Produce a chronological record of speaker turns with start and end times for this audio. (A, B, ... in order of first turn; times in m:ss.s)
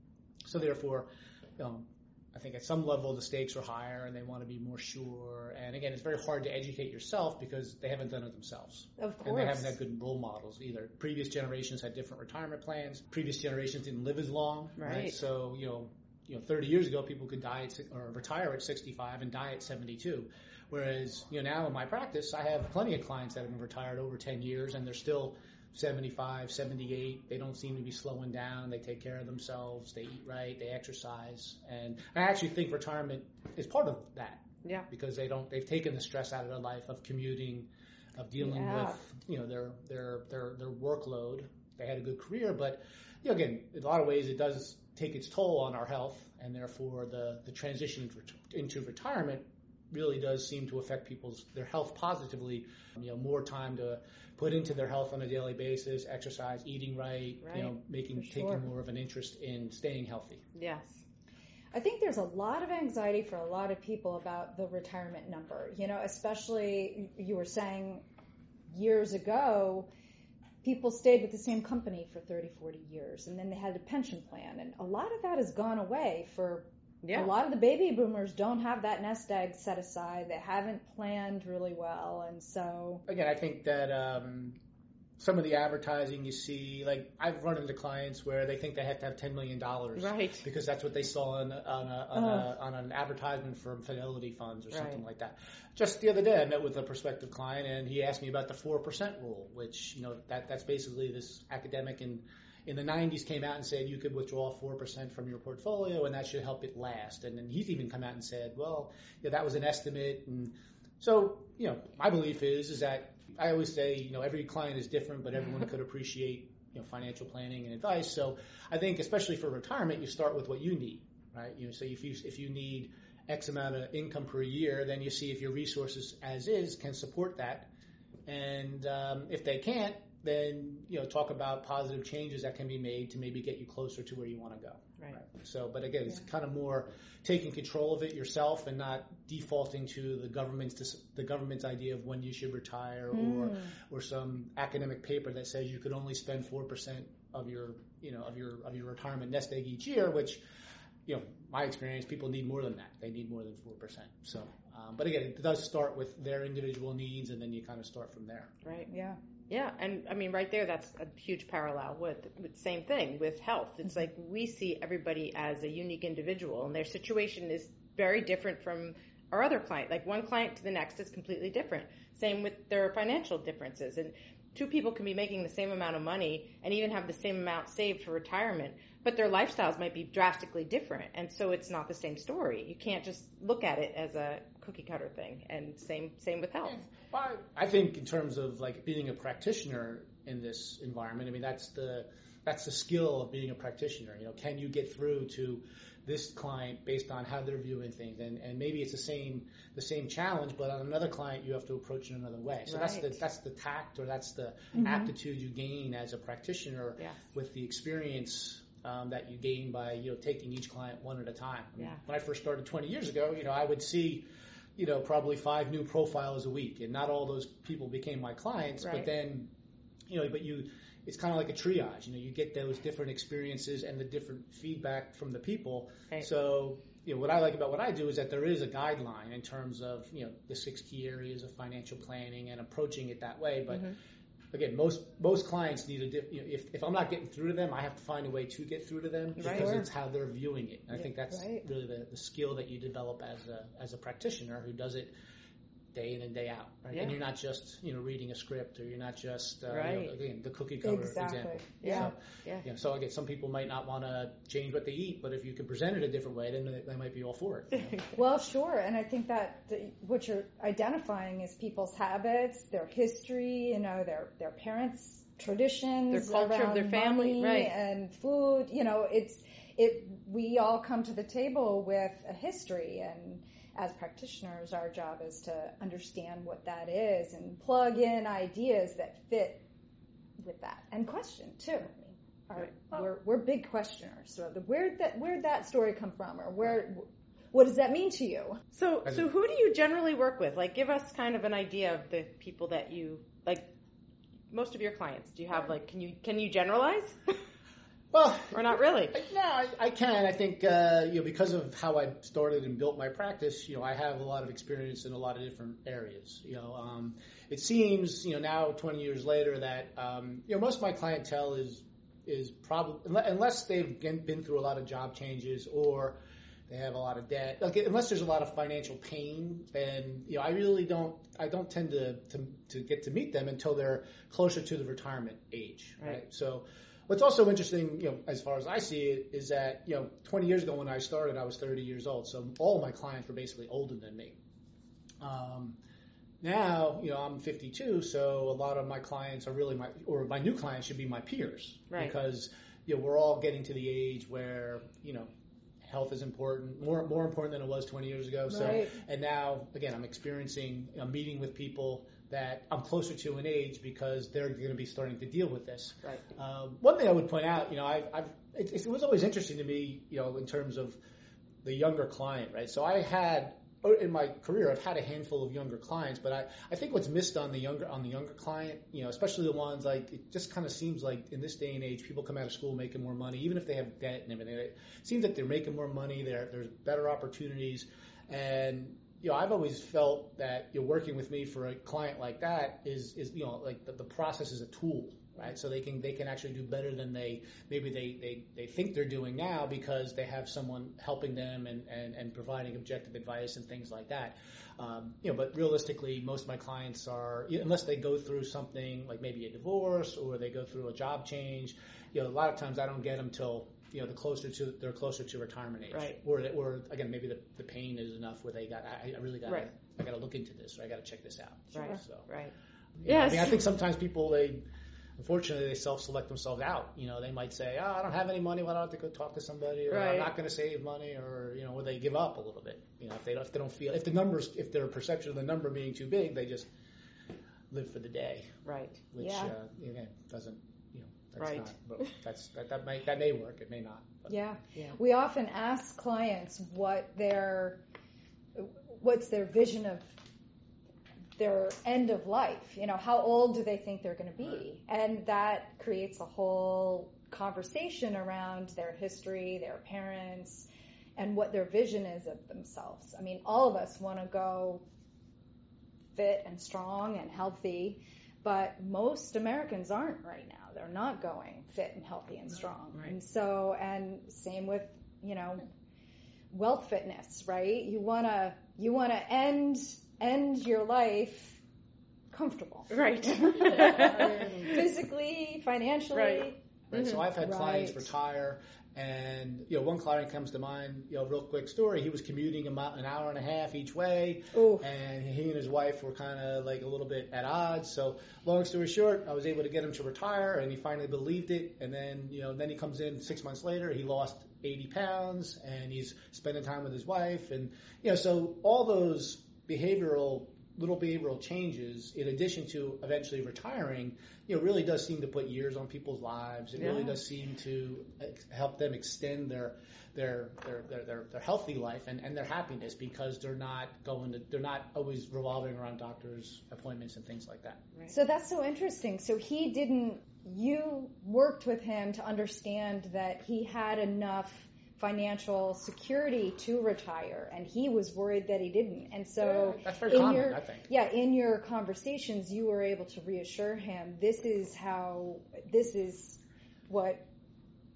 0:00.4-1:00.4 A
0:09.0-0:09.7 B
0:14.8-0:15.2 C
0:38.4-0:39.0 B
0:57.4-0:57.7 C
0:58.2-0:58.6 B
1:00.5-1:01.0 C
1:01.7-1:08.0 B
1:08.7-1:09.9 B
1:10.6-1:23.0 B
1:17.0-1:17.3 C
1:23.1-1:24.6 A
1:25.2-2:07.7 A
1:30.0-1:30.4 C
1:32.2-1:32.4 B
1:34.7-1:35.0 C
2:08.2-2:30.4 A
2:23.1-2:23.7 B
2:31.0-2:38.5 A
2:38.6-2:38.9 C
2:38.9-2:39.2 B
2:39.5-3:06.8 C
3:06.6-3:34.2 A
3:22.7-3:23.2 C
3:34.8-3:39.5 A
3:38.8-3:39.1 C
3:40.1-3:53.9 A
3:53.7-3:54.0 C
3:54.5-4:05.1 A
3:59.4-3:59.8 C
3:59.4-3:59.8 B
4:01.3-4:01.6 B
4:05.9-4:18.0 A
4:09.7-4:10.1 C
4:10.8-4:12.1 B
4:11.8-4:12.6 C
4:17.7-4:18.1 C
4:18.1-4:39.6 B
4:26.1-4:27.7 C
4:40.4-4:48.6 B
4:48.7-4:53.7 C
4:54.5-4:57.4 C
4:58.1-5:16.2 A
4:58.5-4:59.2 C
5:16.7-5:34.4 A
5:35.2-5:35.8 A
5:36.4-5:45.3 A
5:45.8-6:01.0 A
5:48.5-5:49.0 B
6:01.6-6:52.3 A
6:51.7-6:52.5 C
6:53.0-6:54.6 A
6:53.0-6:53.6 C
6:55.2-7:06.7 A
6:59.9-7:00.3 C
7:07.7-7:08.5 A
7:08.6-7:09.0 C
7:09.1-7:14.3 A
7:09.2-7:09.5 B
7:11.4-7:12.1 C
7:14.3-7:17.8 B
7:18.6-7:20.1 B
7:21.4-7:34.8 B
7:36.1-7:45.6 B
7:46.5-7:51.6 B
7:52.3-7:56.6 B
7:52.9-7:54.7 C
7:53.7-7:54.8 A
7:56.1-7:57.2 C
7:56.9-8:37.8 A
7:57.4-7:58.1 B
8:04.5-8:04.8 B
8:26.8-8:27.1 C
8:38.1-8:57.2 B
8:49.4-8:50.8 A